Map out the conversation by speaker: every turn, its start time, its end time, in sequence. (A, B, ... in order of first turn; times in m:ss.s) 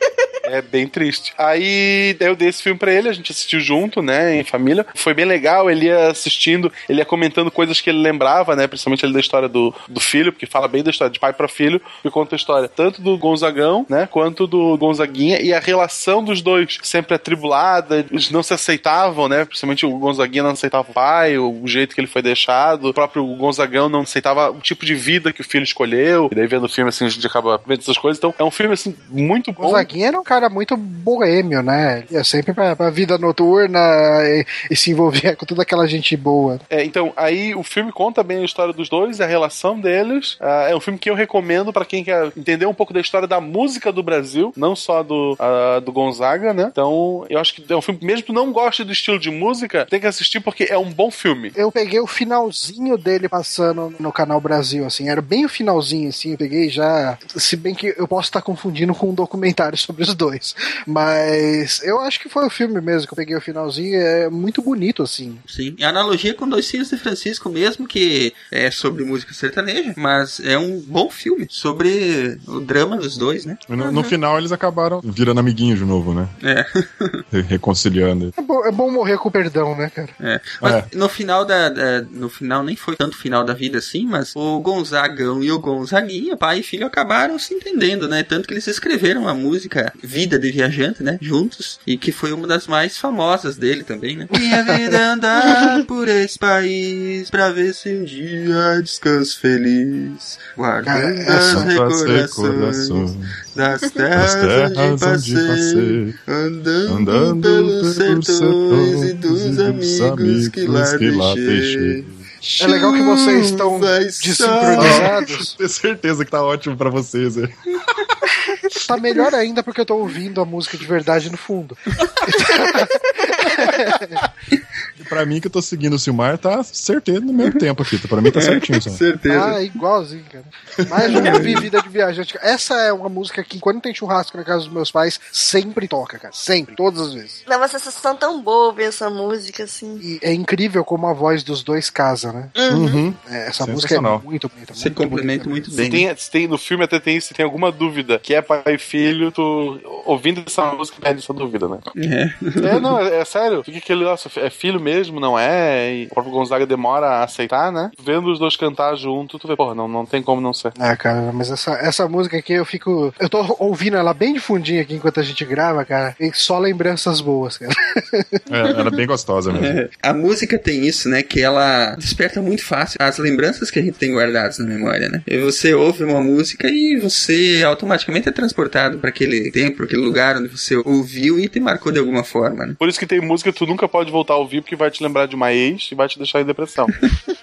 0:00.4-0:29.9 A
0:29.6-0:36.6 B
0:36.7-0:51.5 A
0:51.6-1:05.4 B
1:05.5-1:13.6 C
1:13.7-1:16.3 D
1:13.8-1:14.1 E
1:16.4-1:17.2 C
1:17.3-1:18.3 D
1:18.4-1:20.1 B
1:20.2-1:55.1 C
1:20.6-1:20.9 D
1:34.4-1:34.9 B
1:40.8-1:41.7 B
1:41.3-1:43.4 D
1:44.1-1:46.2 D
1:46.9-1:52.2 D
1:52.6-1:55.6 B
1:54.7-1:58.1 D
1:58.8-2:04.2 B
2:05.0-2:09.0 D
2:08.3-2:09.6 C
2:09.3-2:17.4 B
2:10.9-2:11.5 D
2:11.1-2:11.7 C
2:17.5-2:20.0 E
2:20.0-2:22.5 B
2:22.6-2:23.0 E
2:22.7-2:24.2 D
2:23.2-2:25.5 B
2:24.8-2:26.1 C
2:25.7-2:31.9 A
2:32.0-2:32.9 C
2:32.6-2:40.7 A
2:40.8-2:48.4 B
2:48.5-2:49.8 D
2:49.5-3:02.8 C
3:02.8-3:07.0 A